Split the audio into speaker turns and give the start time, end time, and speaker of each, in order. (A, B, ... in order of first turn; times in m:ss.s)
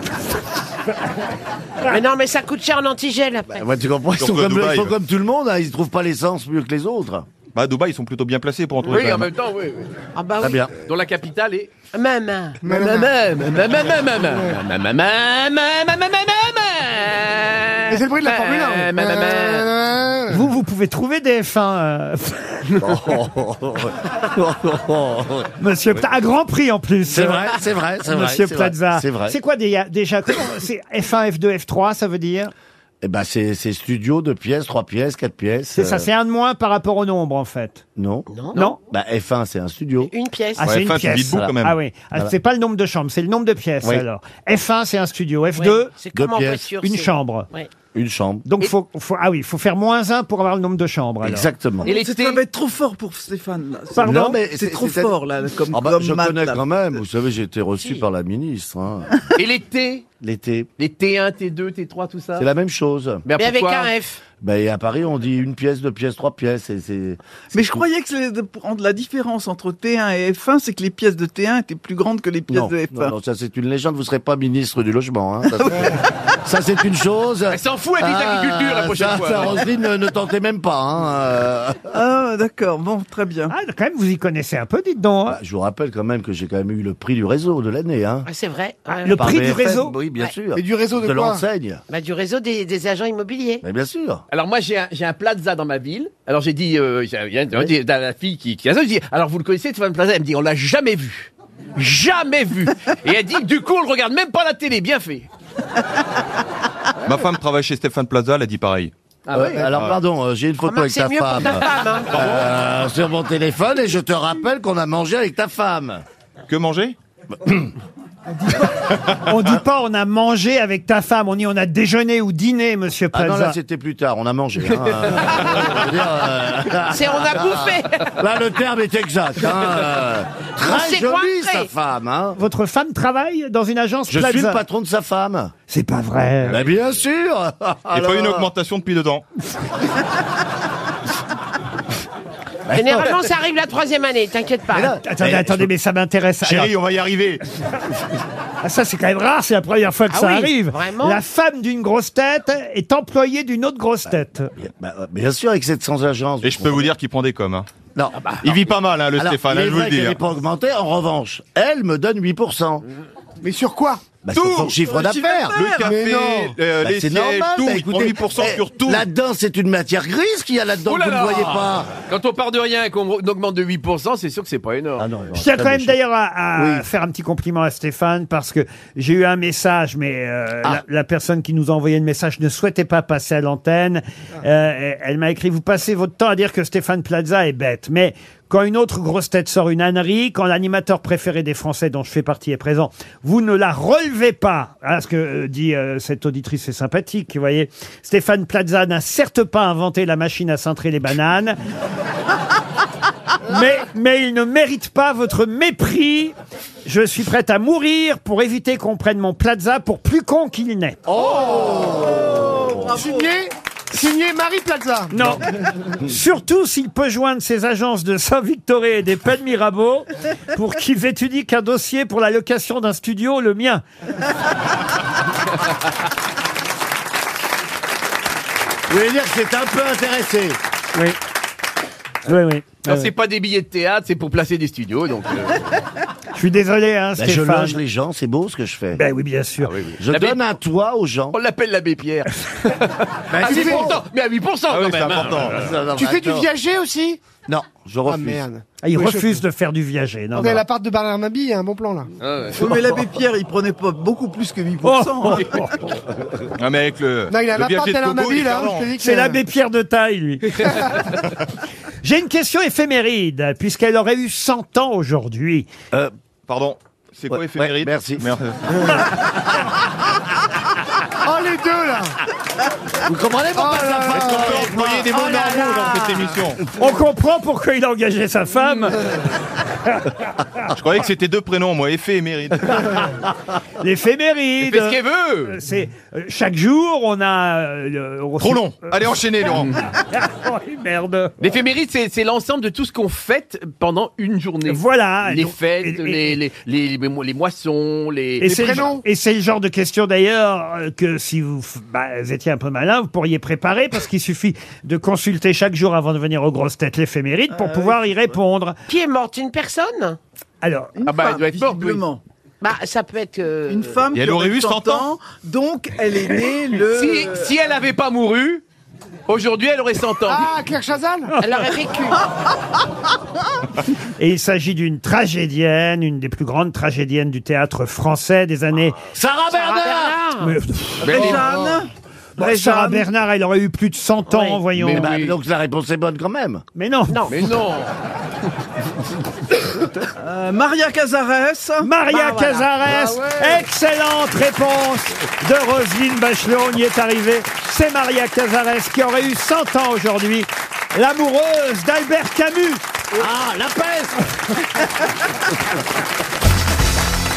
0:01.9-0:03.6 A
0:03.5-0:07.3 B
0:04.2-0:04.9 C
0:07.5-0:09.3 C
0:08.9-0:09.9 D
0:10.2-0:10.7 A
0:10.4-0:10.7 B
0:10.8-0:11.7 D
0:11.9-0:12.6 A
0:12.6-0:13.2 E
0:12.6-0:19.7 D
0:14.2-0:14.6 E
0:17.9-0:20.5 E
0:20.3-0:22.8 F
0:22.8-0:25.5 B
0:25.6-0:32.5 F
0:27.1-0:29.4 B
0:33.0-0:36.1 B
0:35.8-0:37.8 F
0:38.0-0:38.3 B
0:38.3-0:38.7 A
0:38.5-0:38.8 F
0:38.9-0:40.1 B
0:40.0-0:40.6 A
0:40.6-0:45.9 F
0:40.6-0:41.8 C
0:45.6-0:47.7 A
0:46.1-0:46.7 B
0:46.8-0:47.5 F
0:47.9-0:48.5 B
0:48.4-0:51.5 F
0:51.2-0:51.9 B
0:51.8-0:56.9 G
0:51.9-0:52.4 D
0:54.0-0:54.4 F
0:54.0-0:55.2 B
0:55.7-0:59.2 B
0:59.4-1:00.1 D
1:00.2-1:00.7 B
1:00.8-1:02.5 D
1:02.4-1:03.2 B
1:03.3-1:03.9 D
1:03.4-1:04.2 A
1:04.4-1:07.8 B
1:07.5-1:13.1 G
1:12.5-1:21.9 B
1:15.6-1:16.0 G
1:17.5-1:19.7 D
1:21.9-1:23.5 G
1:23.5-1:25.4 F
1:25.3-1:28.3 B
1:28.3-1:29.3 A
1:29.0-1:30.0 F
1:29.1-1:31.8 B
1:30.5-1:31.4 E
1:31.9-1:33.6 A
1:33.6-1:34.2 B
1:34.3-1:45.3 D
1:47.0-1:48.9 C
1:49.3-1:49.7 D
1:49.3-1:56.0 B
1:49.6-1:50.0 C
1:50.7-1:52.1 A
1:56.5-1:57.0 C
1:57.3-1:57.7 B
1:59.2-2:03.6 F
2:03.1-2:12.4 B
2:06.9-2:08.1 A
2:10.6-2:11.7 A
2:12.4-2:14.6 F
2:14.1-2:15.5 B
2:15.7-2:16.6 F
2:16.5-2:18.5 B
2:17.9-2:19.2 C
2:22.7-2:23.2 B
2:22.7-2:25.0 A
2:24.7-2:25.7 B
2:25.0-2:26.7 F
2:26.4-2:27.4 C
2:28.6-2:34.5 F
2:30.1-2:31.2 A
2:34.6-2:36.9 B
2:36.4-2:37.7 C
2:38.0-2:38.5 B
2:38.4-2:40.2 C
2:39.1-2:42.8 B
2:43.4-2:44.0 E
2:44.2-2:45.6 B
2:44.3-2:44.7 C
2:44.7-2:46.0 G
2:45.5-2:49.0 C
2:45.8-2:46.6 E
2:46.8-2:51.9 B
2:50.8-2:55.0 D
2:55.0-2:56.0 B
2:55.4-3:21.6 F
2:56.6-2:56.9 B
3:23.5-3:26.3 F
3:26.8-3:31.1 F
3:31.2-3:32.0 E
3:31.3-3:32.8 B
3:31.4-3:33.3 G
3:32.9-3:35.4 E
3:35.1-3:35.4 F
3:36.0-3:43.8 F
3:48.9-3:50.6 B
3:52.3-3:53.1 F
3:52.8-3:55.6 D
3:56.4-3:57.8 F
3:57.2-3:59.0 B
3:59.0-3:59.9 F
3:59.6-4:00.5 D
4:00.0-4:01.4 B
4:01.3-4:05.6 D
4:03.3-4:04.0 B
4:03.4-4:04.0 E
4:04.7-4:05.7 C
4:05.4-4:06.5 B
4:05.9-4:07.2 E
4:07.5-4:08.4 B
4:08.1-4:09.4 E
4:08.8-4:10.6 F
4:10.4-4:12.1 E
4:12.3-4:12.7 D
4:12.5-4:15.7 G
4:14.8-4:15.8 F
4:16.6-4:18.9 C
4:17.3-4:19.4 E
4:19.0-4:21.2 F
4:22.0-4:25.7 F
4:26.5-4:29.0 C
4:27.3-4:28.3 B
4:31.2-4:32.2 E
4:33.0-4:35.3 B
4:33.6-4:34.7 E
4:34.1-4:36.7 C
4:36.8-4:39.1 F
4:40.7-4:42.9 C
4:43.8-4:51.6 F
4:44.6-4:45.6 D
4:48.4-4:49.7 C
4:51.4-4:58.8 D
4:54.7-4:56.4 F
4:58.4-5:08.8 F
4:58.4-4:59.0 E
5:07.5-5:08.4 G
5:08.9-5:10.2 A
5:10.6-5:11.0 F
5:11.0-5:12.2 G
5:11.1-5:12.0 D
5:12.6-5:14.0 A
5:13.7-5:17.5 G
5:14.1-5:15.1 C
5:16.9-5:18.6 D
5:19.3-5:20.5 D
5:20.3-5:21.3 E
5:21.3-5:21.7 F
5:21.4-5:22.2 A
5:24.2-5:29.0 F
5:29.1-5:30.2 B
5:29.5-5:30.6 A
5:30.4-5:31.7 F
5:31.0-5:33.1 G
5:31.1-5:31.4 D
5:32.4-5:35.1 F
5:34.3-5:34.6 A
5:34.8-5:35.4 D
5:34.8-5:36.6 B
5:36.8-5:37.6 F
5:37.3-5:37.9 D
5:40.2-5:41.9 G
5:41.8-5:52.8 F
5:42.1-5:42.7 A
5:53.1-5:54.2 B